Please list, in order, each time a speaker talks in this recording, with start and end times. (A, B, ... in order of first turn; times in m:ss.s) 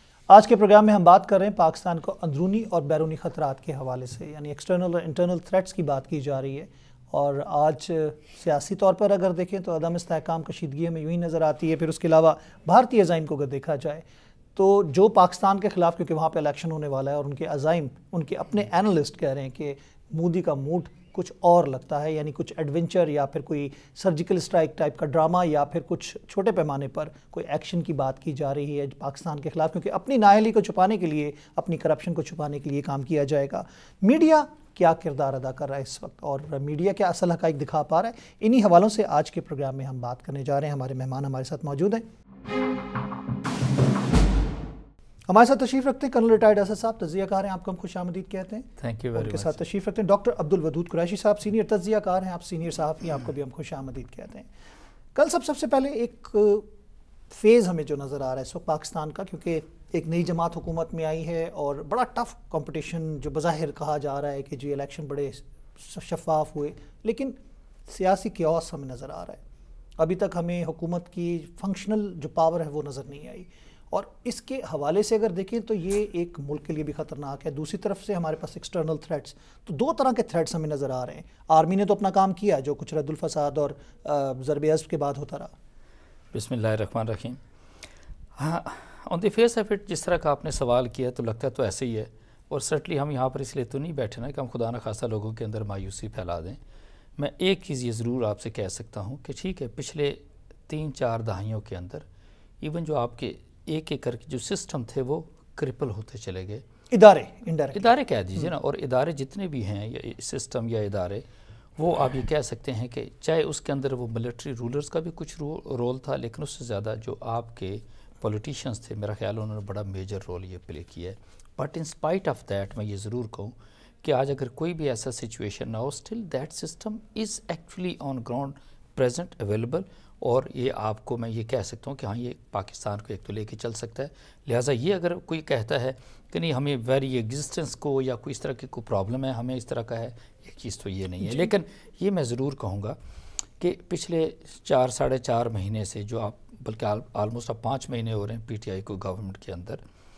0:00.3-0:14.0 A
0:14.6-0:42.0 A
0:45.3-0:54.5 A
0:48.8-0:49.6 B
0:55.2-0:56.7 A
0:57.3-1:07.4 A
1:07.9-1:09.4 A
1:10.0-1:25.5 A
1:26.3-1:27.4 B
1:28.4-1:36.6 B
1:37.2-1:42.0 B
1:42.6-1:46.6 B
1:46.9-1:47.9 A
1:47.7-1:51.2 B
1:51.8-2:23.0 B
2:21.2-2:21.5 A
2:23.6-2:29.8 B